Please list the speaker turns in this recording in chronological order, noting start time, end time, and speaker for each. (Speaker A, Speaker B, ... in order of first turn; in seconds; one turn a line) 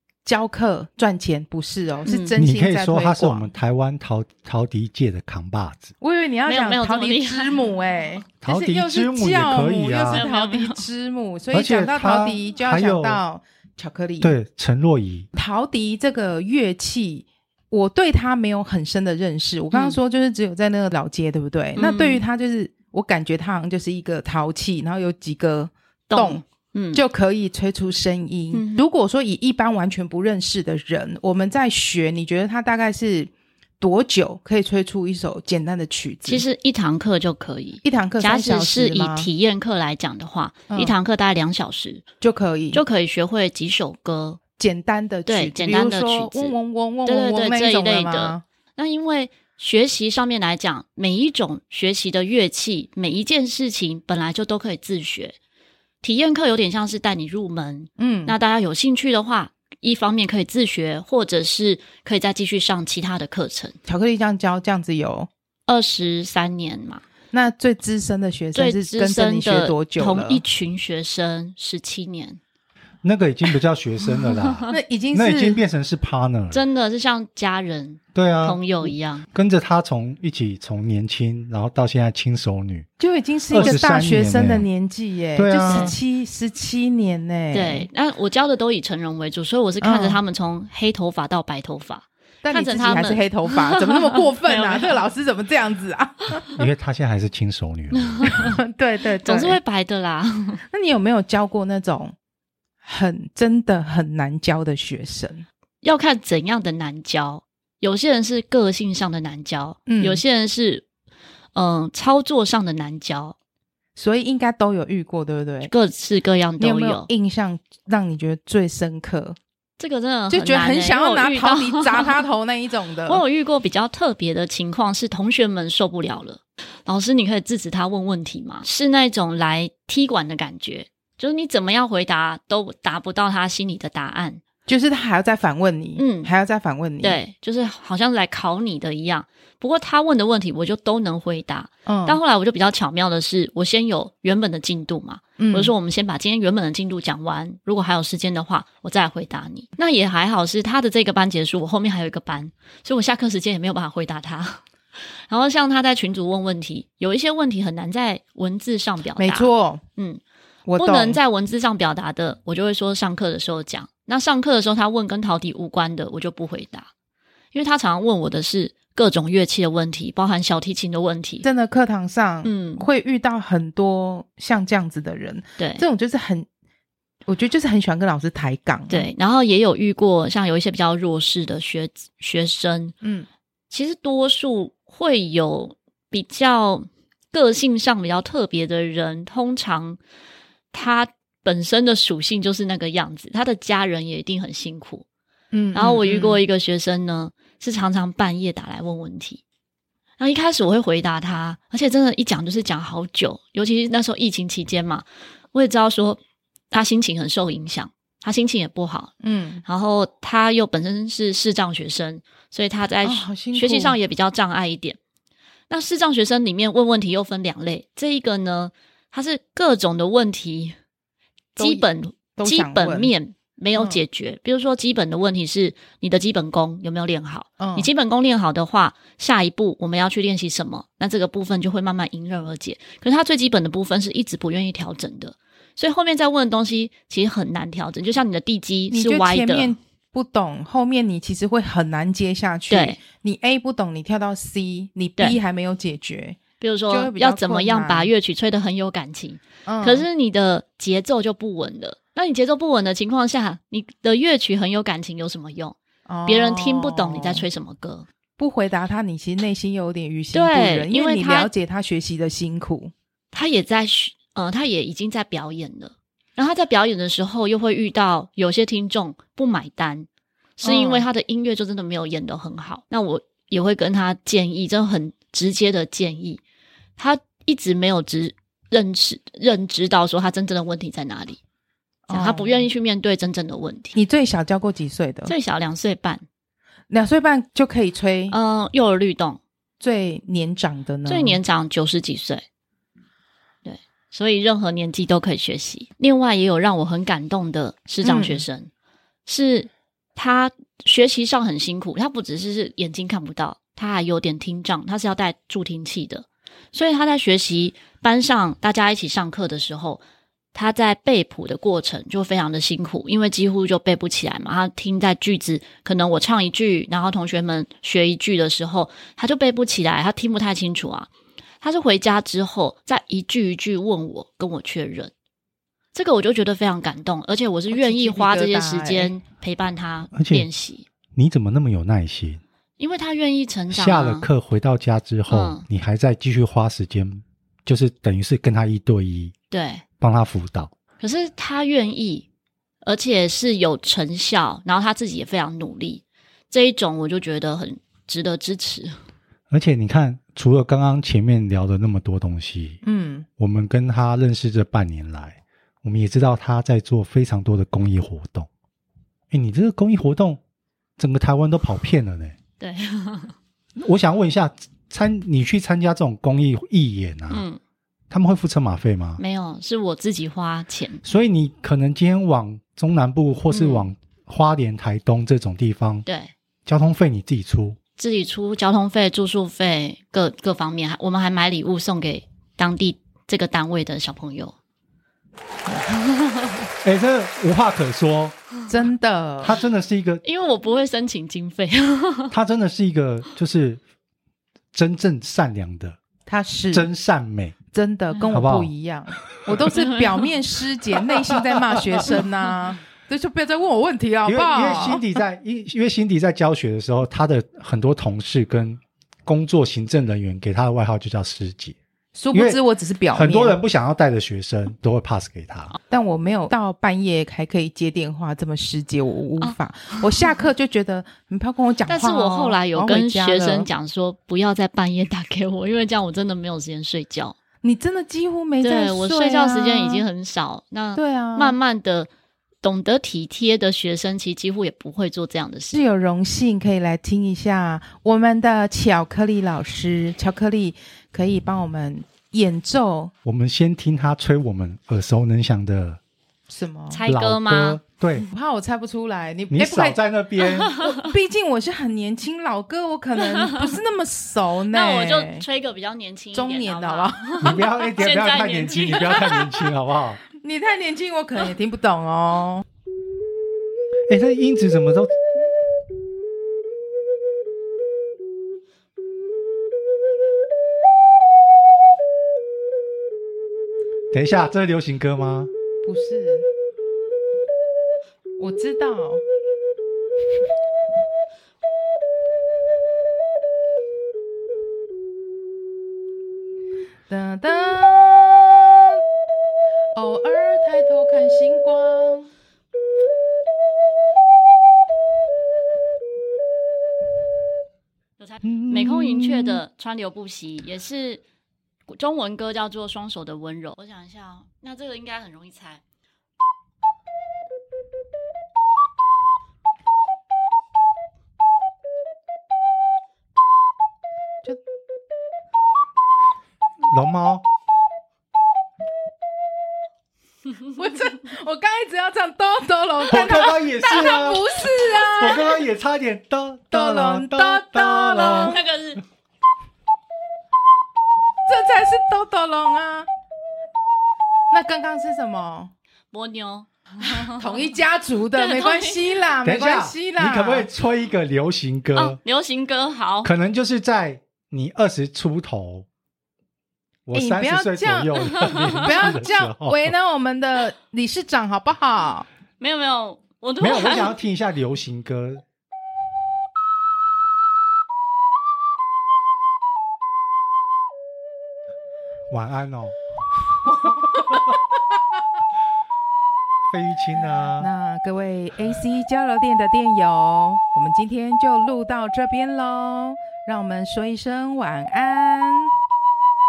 Speaker A: 0.2-3.5
Speaker B: 2.0-2.3
Speaker C: 2.4-5.9
Speaker A: 6.0-14.3
Speaker B: 6.5-7.6
Speaker C: 8.4-10.2
Speaker B: 10.1-10.8
Speaker C: 11.5-13.2
Speaker C: 14.2-15.3
Speaker A: 15.3-26.4
Speaker B: 19.7-20.0
Speaker B: 21.8-22.2
Speaker B: 26.1-27.0
Speaker A: 26.9-36.4
Speaker B: 28.5-28.8
Speaker B: 36.2-42.0
Speaker A: 37.8-39.3
Speaker A: 42.2-42.8
Speaker B: 42.7-44.4
Speaker A: 44.6-48.4
Speaker B: 45.3-46.5
Speaker B: 47.0-55.3
Speaker B: 56.0-63.7
Speaker A: 58.0-58.4
Speaker A: 63.9-65.3
Speaker B: 65.7-67.0
Speaker A: 67.3-70.4
Speaker B: 68.5-72.4
Speaker C: 73.0-76.6
Speaker B: 74.5-74.7
Speaker A: 74.7-75.6
Speaker B: 76.5-79.2
Speaker C: 78.1-82.9
Speaker A: 83.0-87.9
Speaker C: 83.5-84.7
Speaker C: 85.3-85.9
Speaker B: 85.6-86.0
Speaker B: 87.5-95.0
Speaker A: 89.8-90.2
Speaker A: 92.4-96.5
Speaker C: 96.5-98.5
Speaker B: 98.2-98.4
Speaker A: 98.3-99.6
Speaker B: 99.2-100.6
Speaker A: 100.7-102.1
Speaker A: 102.8-105.4
Speaker B: 105.8-110.8
Speaker A: 109.9-110.2
Speaker B: 111.5-113.3
Speaker A: 114.0-115.7
Speaker B: 115.6-117.1
Speaker A: 116.6-119.4
Speaker B: 119.8-122.2
Speaker A: 120.3-123.2
Speaker B: 123.1-134.4
Speaker A: 134.7-137.2
Speaker B: 136.0-136.3
Speaker B: 137.0-154.6
Speaker A: 141.8-142.2
Speaker A: 145.4-145.7
Speaker B: 155.3-160.2
Speaker A: 159.2-159.8
Speaker A: 160.7-161.2
Speaker B: 160.8-166.9
Speaker B: 167.5-171.4
Speaker A: 171.4-176.5
Speaker B: 172.4-172.8
Speaker B: 175.6-175.8
Speaker A: 177.3-179.1
Speaker B: 178.9-182.9
Speaker A: 183.0-183.3
Speaker B: 183.7-190.0
Speaker B: 190.7-195.0
Speaker A: 195.5-196.4
Speaker B: 195.7-199.4
Speaker B: 200.2-206.2
Speaker B: 206.7-209.1
Speaker A: 209.2-209.6
Speaker B: 209.6-215.0
Speaker A: 213.0-214.0
Speaker B: 215.7-220.8
Speaker A: 221.6-223.1
Speaker B: 221.6-239.7
Speaker A: 223.8-224.0
Speaker A: 227.6-227.9
Speaker A: 238.9-248.1
Speaker B: 242.7-243.0
Speaker B: 246.6-258.1
Speaker A: 249.7-250.1
Speaker A: 256.1-257.4
Speaker A: 258.4-262.9
Speaker B: 260.3-261.5
Speaker B: 263.3-270.1
Speaker B: 270.6-276.4
Speaker A: 270.6-271.1
Speaker B: 277.0-281.4
Speaker A: 282.1-282.7
Speaker B: 282.1-283.9
Speaker A: 283.9-285.3
Speaker B: 285.3-286.2
Speaker A: 286.9-288.4
Speaker B: 288.3-289.4
Speaker A: 289.8-291.4
Speaker B: 291.1-292.4
Speaker B: 293.6-298.7
Speaker A: 298.0-298.4
Speaker B: 299.2-310.0
Speaker B: 310.5-321.1
Speaker B: 321.6-325.1
Speaker B: 325.9-330.9
Speaker A: 327.7-329.1
Speaker C: 330.1-330.5
Speaker C: 331.1-332.4
Speaker B: 332.8-334.3
Speaker C: 333.7-339.3
Speaker B: 335.3-335.6
Speaker B: 339.5-339.8
Speaker C: 340.0-340.7
Speaker B: 341.0-342.2
Speaker B: 342.8-348.9
Speaker C: 349.5-352.8
Speaker A: 352.8-353.3
Speaker C: 353.4-358.5
Speaker C: 359.3-360.4
Speaker C: 361.0-362.3
Speaker B: 362.6-363.3
Speaker C: 363.8-367.4
Speaker B: 367.3-367.6
Speaker C: 368.1-369.2
Speaker B: 369.2-371.0
Speaker C: 371.0-376.0
Speaker B: 373.5-373.9
Speaker B: 376.1-376.3
Speaker C: 376.6-377.8
Speaker B: 378.0-384.5
Speaker C: 386.8-388.4
Speaker A: 388.7-389.5
Speaker C: 389.4-390.2
Speaker B: 390.2-392.3
Speaker C: 392.3-393.8
Speaker C: 394.7-396.0
Speaker A: 396.3-396.9
Speaker C: 396.7-397.6
Speaker A: 397.7-405.0
Speaker C: 398.3-398.7
Speaker C: 401.4-402.1
Speaker C: 404.2-411.8
Speaker A: 412.1-413.6
Speaker C: 412.3-412.6
Speaker C: 413.1-415.7
Speaker A: 415.9-423.7
Speaker B: 419.4-420.3
Speaker B: 421.9-427.4
Speaker A: 427.6-430.0
Speaker B: 428.6-432.1
Speaker A: 430.9-431.6
Speaker B: 432.6-435.8
Speaker A: 435.7-443.1
Speaker C: 443.2-446.0
Speaker A: 446.5-447.0
Speaker B: 446.9-447.8
Speaker C: 447.1-448.3
Speaker A: 448.2-450.0
Speaker C: 449.5-450.7
Speaker B: 450.7-451.0
Speaker A: 450.8-455.4
Speaker B: 453.2-453.7
Speaker B: 454.7-459.6
Speaker A: 456.3-457.6
Speaker C: 457.4-460.2
Speaker A: 460.4-462.6
Speaker C: 464.1-465.1
Speaker C: 474.1-475.5
Speaker A: 475.8-476.4
Speaker A: 478.4-479.2
Speaker A: 487.1-488.9
Speaker A: 489.9-492.3
Speaker B: 498.2-501.2
Speaker C: 498.4-499.6
Speaker B: 501.9-505.8
Speaker C: 516.9-517.4
Speaker A: 520.7-525.6
Speaker C: 523.1-528.6
Speaker A: 526.7-528.6
Speaker B: 528.2-529.0
Speaker A: 531.5-533.1
Speaker A: 534.5-535.7
Speaker B: 536.1-537.4
Speaker A: 537.0-540.7
Speaker B: 538.3-539.0
Speaker C: 539.4-542.2
Speaker B: 541.9-543.3
Speaker C: 543.2-545.9
Speaker C: 547.0-549.9
Speaker A: 547.1-552.3
Speaker B: 548.4-548.7
Speaker B: 552.6-554.1
Speaker C: 553.6-555.4
Speaker C: 562.3-563.0
Speaker C: 563.8-564.3
Speaker C: 566.7-567.7
Speaker A: 567.6-575.7